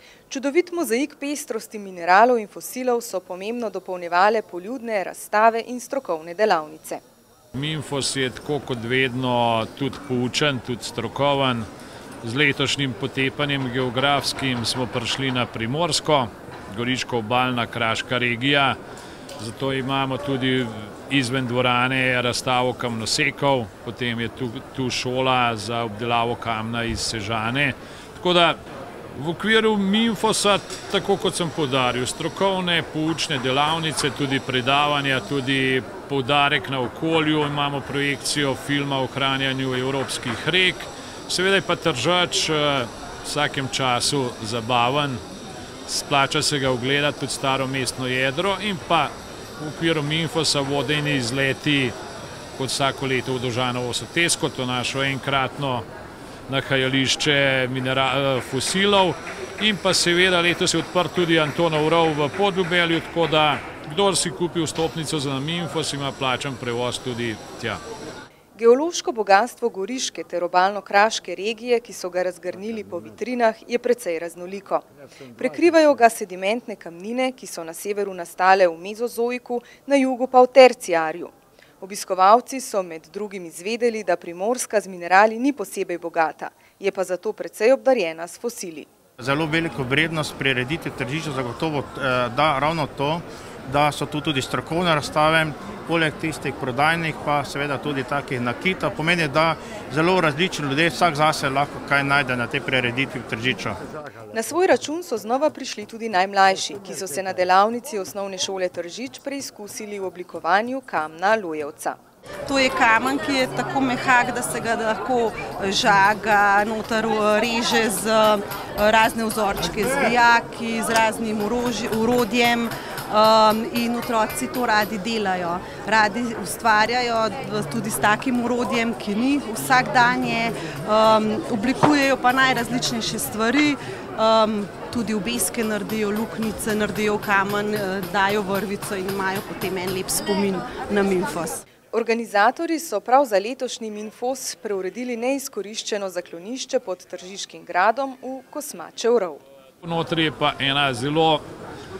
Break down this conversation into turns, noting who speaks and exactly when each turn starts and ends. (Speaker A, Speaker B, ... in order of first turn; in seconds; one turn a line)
Speaker A: 0.3-7.0
Speaker B: 7.5-11.7
Speaker B: 12.2-18.8
Speaker B: 19.4-28.6
Speaker B: 29.1-45.2
Speaker B: 45.9-52.0
Speaker B: 52.6-55.9
Speaker B: 56.5-67.8
Speaker A: 68.5-88.9
Speaker C: 89.2-103.8
Speaker A: 104.3-112.0
Speaker D: 112.5-141.6
Speaker A: 141.9-149.4
Speaker B: 149.8-151.4